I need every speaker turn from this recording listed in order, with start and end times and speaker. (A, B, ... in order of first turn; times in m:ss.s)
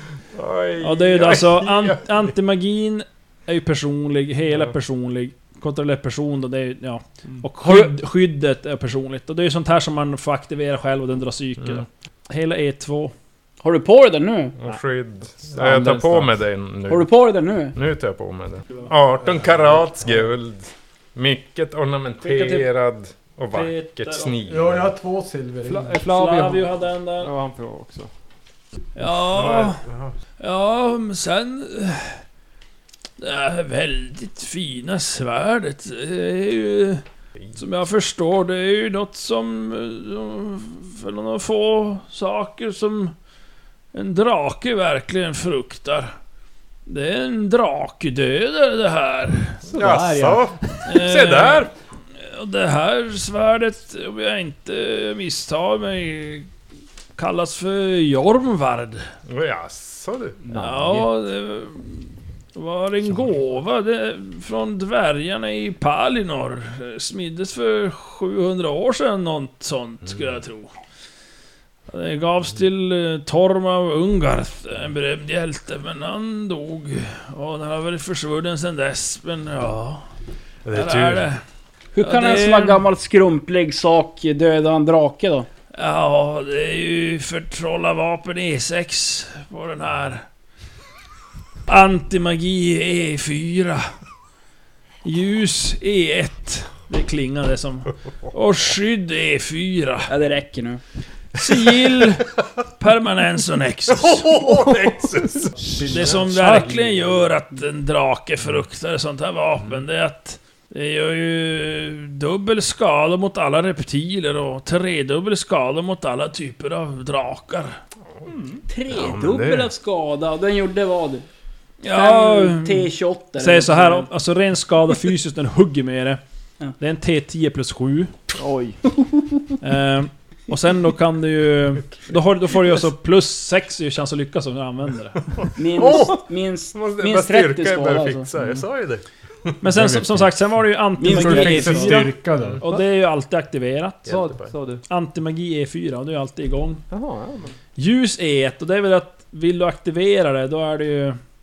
0:00.3-0:02.2 A
0:00.8-0:13.1 B
0:13.6-0:14.6 C
0:14.6-0:17.1 A
0:15.6-0:16.2 D
0:15.6-0:16.0 C
0:16.9-0:17.7 C
0:17.7-0:24.9 A
0:22.2-0:22.7 B
0:23.5-0:24.3 B
0:24.4-0:26.0 E
0:25.6-0:28.1 D
0:26.1-0:27.3 B
0:28.9-0:29.8 B
0:29.3-0:30.1 A
0:30.4-0:32.2 B
0:33.2-0:37.0 B
0:37.5-0:43.1 B
0:43.9-0:46.1 B
0:46.9-0:49.6 B
0:49.7-0:51.7 A
0:49.8-0:50.4 E
0:49.8-0:50.4 D
0:50.8-0:56.5 B
0:57.2-0:59.0 B
0:59.3-1:00.4 A
1:00.4-1:01.1 D
1:00.5-1:10.7 B
1:11.9-1:20.0 B
1:20.6-1:21.3 A
1:20.7-1:21.4 B
1:21.9-1:25.5 C
1:22.0-1:22.8 B
1:25.7-1:30.2 B
1:31.7-1:33.9 B
1:35.0-1:40.1 B
1:40.1-1:40.8 C
1:41.3-1:44.3 B
1:43.9-1:45.6 A
1:45.6-1:46.6 D
1:45.8-1:47.3 E
1:45.9-1:57.8 B
1:58.3-1:58.6 D
1:58.7-2:01.2 C
1:58.9-1:59.7 A
2:01.8-2:06.2 B
2:01.9-2:04.1 C
2:06.8-2:08.2 B
2:08.3-2:08.8 D
2:09.6-2:15.2 B
2:15.4-2:20.0 A
2:15.6-2:18.3 C
2:19.6-2:24.1 B
2:21.0-2:22.0 C
2:21.0-2:22.6 E
2:24.0-2:24.5 A
2:24.0-2:24.8 D
2:24.9-2:26.8 B
2:26.9-2:27.5 D
2:27.8-2:31.2 B